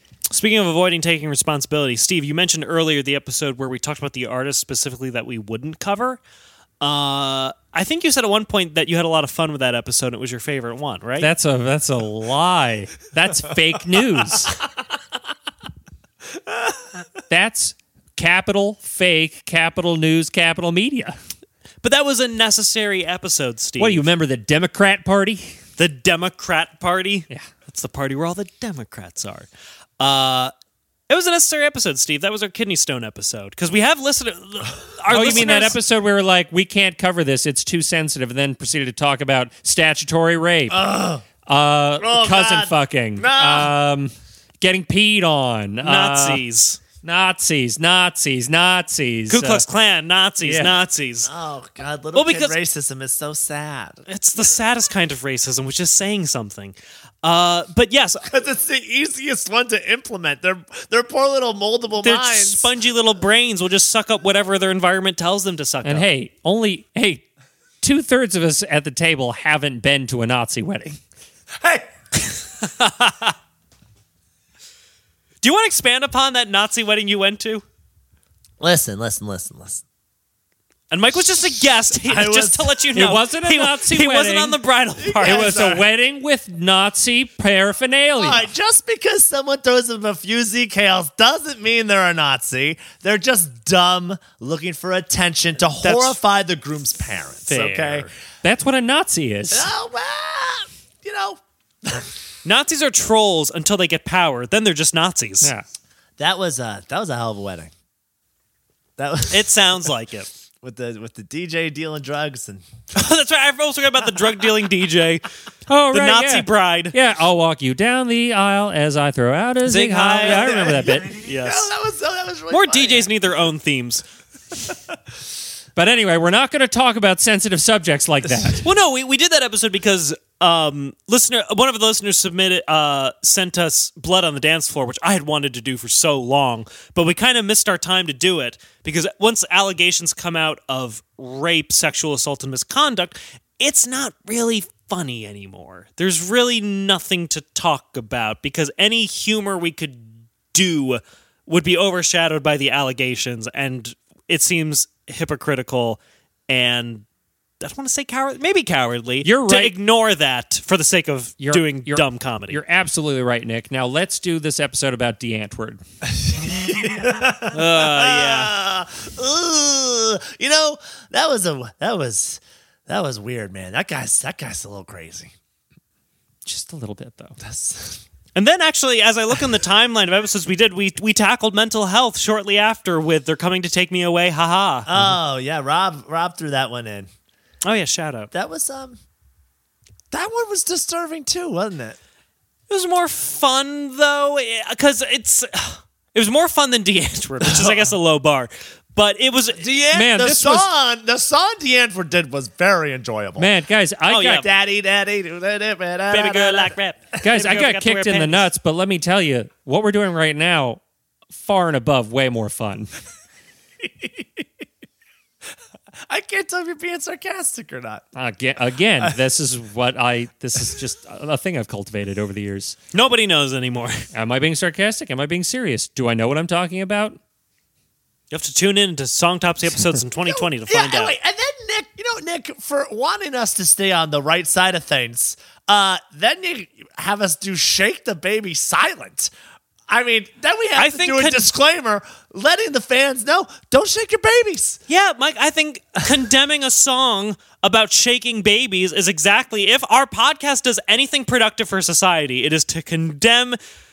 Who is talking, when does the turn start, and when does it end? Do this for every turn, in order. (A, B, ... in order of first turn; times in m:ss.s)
0:00.3-0:06.2 A
0:06.8-0:11.3 A
0:11.2-0:14.6 B
0:17.3-0:21.2 B
0:21.8-0:24.0 A
0:23.8-0:25.6 B
0:25.8-0:29.5 A
0:30.0-0:30.5 A
0:31.1-0:35.8 A
0:35.1-0:40.8 B
0:40.7-0:41.2 C
0:41.4-0:46.4 B
0:42.0-0:43.7 C
0:45.8-0:46.8 A
0:47.0-0:49.6 B
0:49.3-0:51.3 A
0:50.4-0:50.7 B
0:51.2-0:54.0 C
0:52.1-0:52.5 A
0:54.1-0:58.3 A
0:58.3-1:02.7 C
1:02.0-1:06.1 A
1:05.8-1:07.2 B
1:07.8-1:11.0 B
1:11.6-1:11.9 C
1:12.6-1:13.3 A
1:15.4-1:17.6 A
1:18.6-1:19.8 C
1:20.9-1:25.7 A
1:22.0-1:22.9 C
1:22.9-1:24.6 B
1:25.0-1:25.8 C
1:25.2-1:28.5 B
1:28.2-1:38.1 C
1:35.8-1:36.2 A
1:37.5-1:38.0 A
1:37.5-1:39.7 B
1:39.5-1:42.1 C
1:42.4-1:45.5 A
1:46.2-1:47.7 C
1:49.0-1:49.8 C
1:49.3-1:50.3 A
1:50.6-1:52.7 C
1:52.9-1:55.3 A
1:55.7-2:01.1 B
1:55.9-1:57.0 A
1:59.6-2:01.7 A
2:00.2-2:03.1 C
2:02.5-2:04.0 A
2:05.8-2:08.6 B
2:08.6-2:37.0 A
2:37.6-2:42.6 A
2:39.2-2:39.7 B
2:41.4-2:45.8 B
2:46.2-2:55.3 C
2:47.5-2:48.5 A
2:56.4-2:57.4 B
2:57.4-2:58.0 C
2:58.3-3:04.9 A
3:04.9-3:07.1 C
3:07.6-3:08.3 A
3:08.3-3:09.0 C
3:10.1-3:12.0 C
3:12.7-3:19.6 A
3:17.4-3:17.9 C
3:19.6-3:23.5 C
3:19.9-3:20.7 B
3:23.4-3:24.5 B
3:24.1-3:24.5 A
3:24.4-3:26.7 C
3:26.1-3:28.4 A
3:27.2-3:30.8 B
3:31.3-3:32.9 B
3:33.8-3:34.4 C
3:36.1-3:38.0 C
3:38.1-3:42.8 B
3:42.9-3:44.0 A
3:44.1-3:47.2 B
3:48.3-3:51.1 A
3:50.2-3:59.3 C
3:59.9-4:04.8 C
4:00.8-4:01.5 A
4:04.9-4:13.6 A